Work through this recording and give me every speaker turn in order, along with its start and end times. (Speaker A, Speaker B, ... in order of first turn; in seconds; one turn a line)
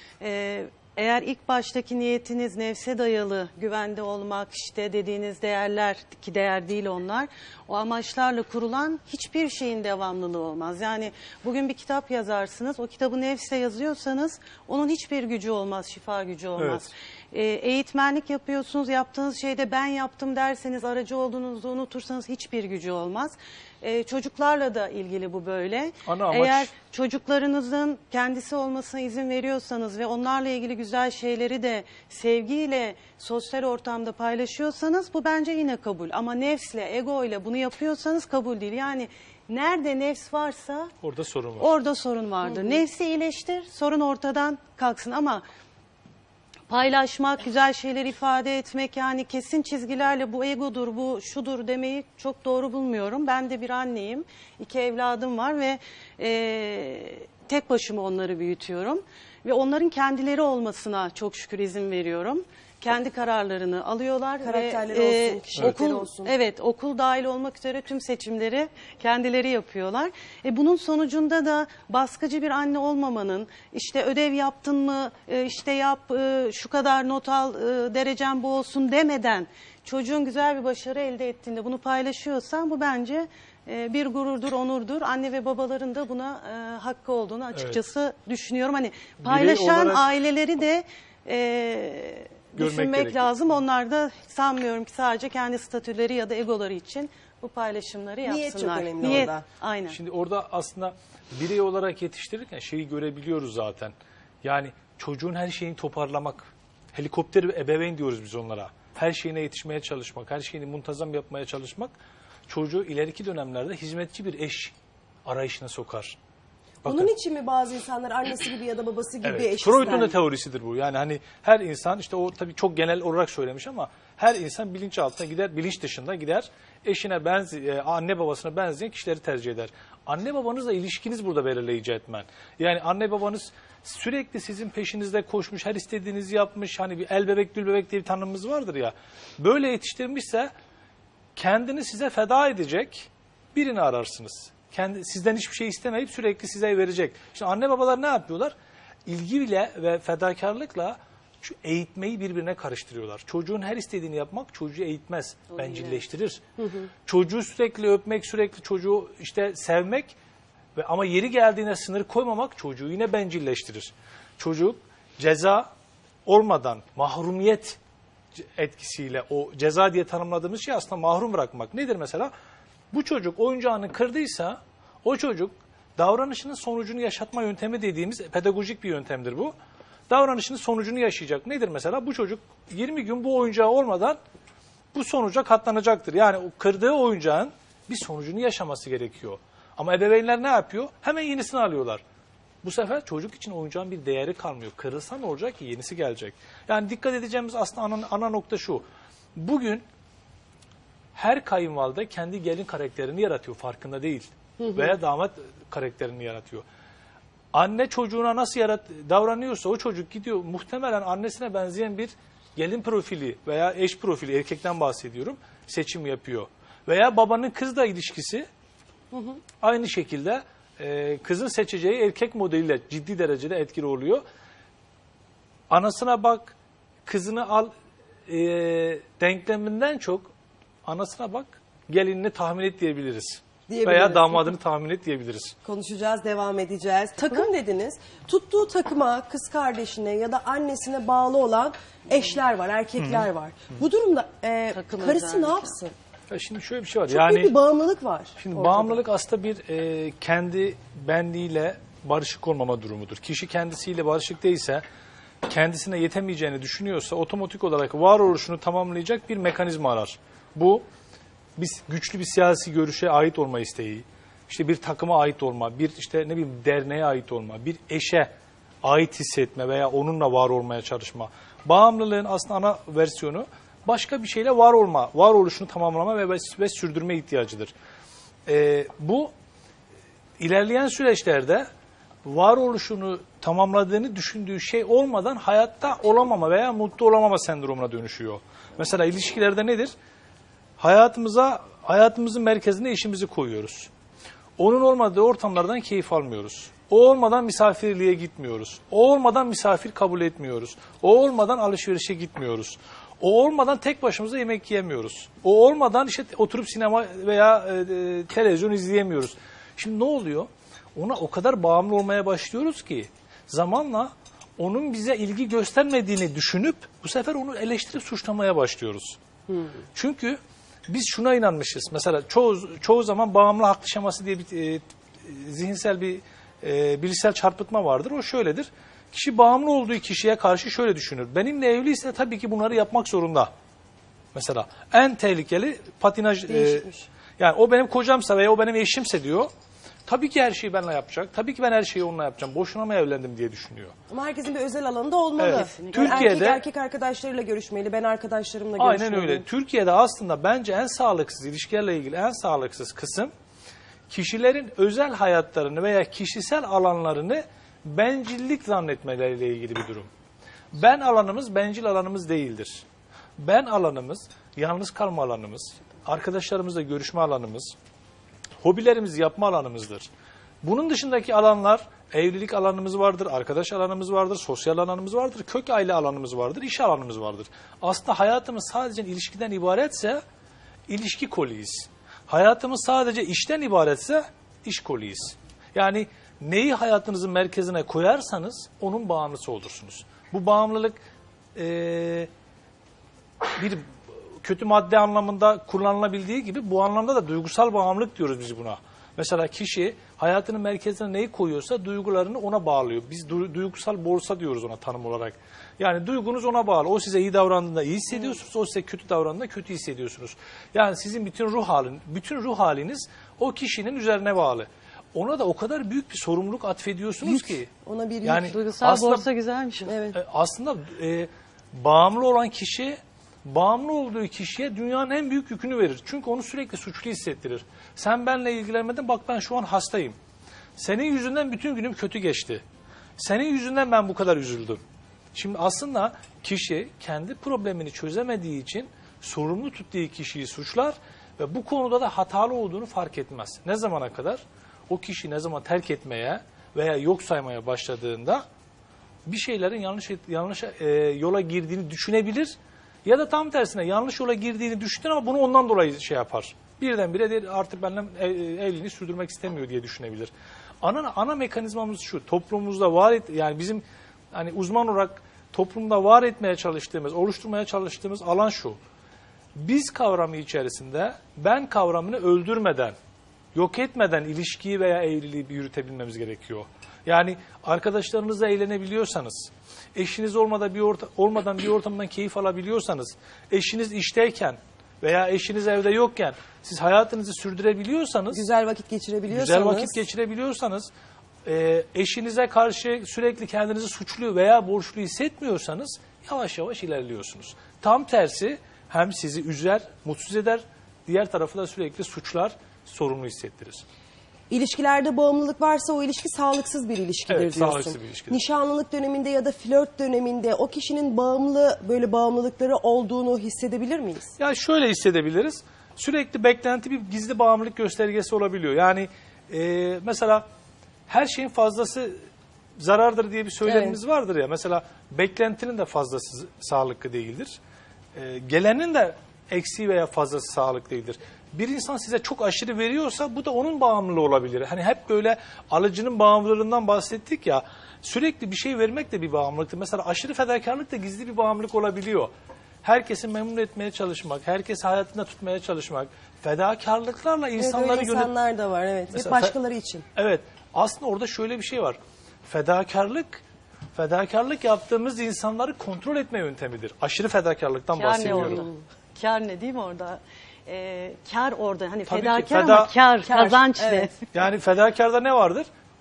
Speaker A: 0.2-40.9
Speaker B: 16.6-16.8
Speaker B: 26.0-26.7
Speaker B: 41.0-41.7
Speaker A: 41.6-45.4
Speaker A: 46.7-100.0
Speaker C: 64.4-66.3
Speaker B: 87.5-87.8
Speaker B: 89.2-90.1
Speaker B: 92.6-93.3
Speaker C: 98.2-99.4
Speaker B: 99.0-99.3
Speaker B: 99.9-111.9
Speaker B: 112.5-116.2
Speaker B: 116.8-117.1
Speaker C: 116.8-120.2
Speaker B: 119.2-140.5
Speaker B: 141.3-148.5
Speaker B: 149.1-156.4
Speaker A: 155.5-156.0
Speaker B: 157.1-160.2
Speaker B: 160.8-165.7
Speaker B: 166.2-167.8
Speaker B: 168.3-172.3
Speaker B: 172.9-179.5
Speaker B: 180.1-184.2
Speaker B: 184.9-192.0
Speaker B: 192.6-199.8
Speaker B: 201.1-206.6
Speaker B: 207.5-218.5
Speaker C: 219.1-219.4
Speaker B: 219.6-224.2
Speaker B: 225.7-226.5
Speaker B: 227.1-227.7
Speaker B: 228.3-230.3
Speaker B: 230.8-235.5
Speaker C: 233.7-234.5
Speaker C: 235.6-245.9
Speaker A: 237.2-237.5
Speaker B: 243.0-243.3
Speaker A: 244.7-245.8
Speaker B: 246.3-247.5
Speaker C: 247.1-249.0
Speaker B: 248.4-254.8
Speaker B: 255.4-260.8
Speaker B: 261.6-268.3
Speaker B: 268.8-277.7
Speaker B: 278.4-279.3
Speaker B: 280.4-281.7
Speaker B: 282.2-289.9
Speaker B: 290.8-293.9
Speaker B: 294.6-319.2
Speaker B: 319.9-333.5
Speaker B: 334.3-336.9
Speaker C: 336.5-337.1
Speaker B: 337.4-339.5
Speaker B: 340.1-343.9
Speaker C: 344.1-349.4
Speaker B: 345.4-346.6
Speaker A: 345.4-346.4
Speaker B: 348.8-353.3
Speaker B: 354.1-360.1
Speaker B: 360.7-362.8
Speaker B: 363.4-367.7
Speaker B: 368.6-370.1
Speaker B: 370.6-380.2
Speaker B: 380.9-391.0
Speaker B: 391.5-392.3
Speaker B: 393.6-417.7
Speaker C: 417.3-418.6
Speaker B: 418.2-419.3
Speaker A: 418.4-419.9
Speaker C: 419.9-420.2
Speaker B: 420.1-430.1
Speaker B: 430.8-432.6
Speaker B: 433.2-434.8
Speaker B: 435.3-448.4
Speaker B: 449.2-452.5
Speaker B: 453.0-468.8
Speaker B: 469.6-472.9
Speaker B: 473.5-488.4
Speaker C: 488.3-490.0
Speaker B: 489.3-490.9
Speaker B: 491.4-503.8
Speaker C: 504.5-514.3
Speaker B: 507.3-508.4
Speaker B: 514.4-520.4
Speaker B: 521.1-522.2
Speaker B: 522.8-527.6
Speaker C: 523.6-524.0
Speaker B: 528.1-542.3
Speaker B: 542.8-548.3
Speaker C: 547.6-550.0
Speaker B: 549.1-549.5
Speaker B: 550.1-553.4
Speaker B: 553.9-558.6
Speaker A: 557.9-564.1
Speaker C: 558.3-558.7
Speaker B: 562.1-562.9
Speaker C: 563.2-564.1
Speaker B: 564.3-565.7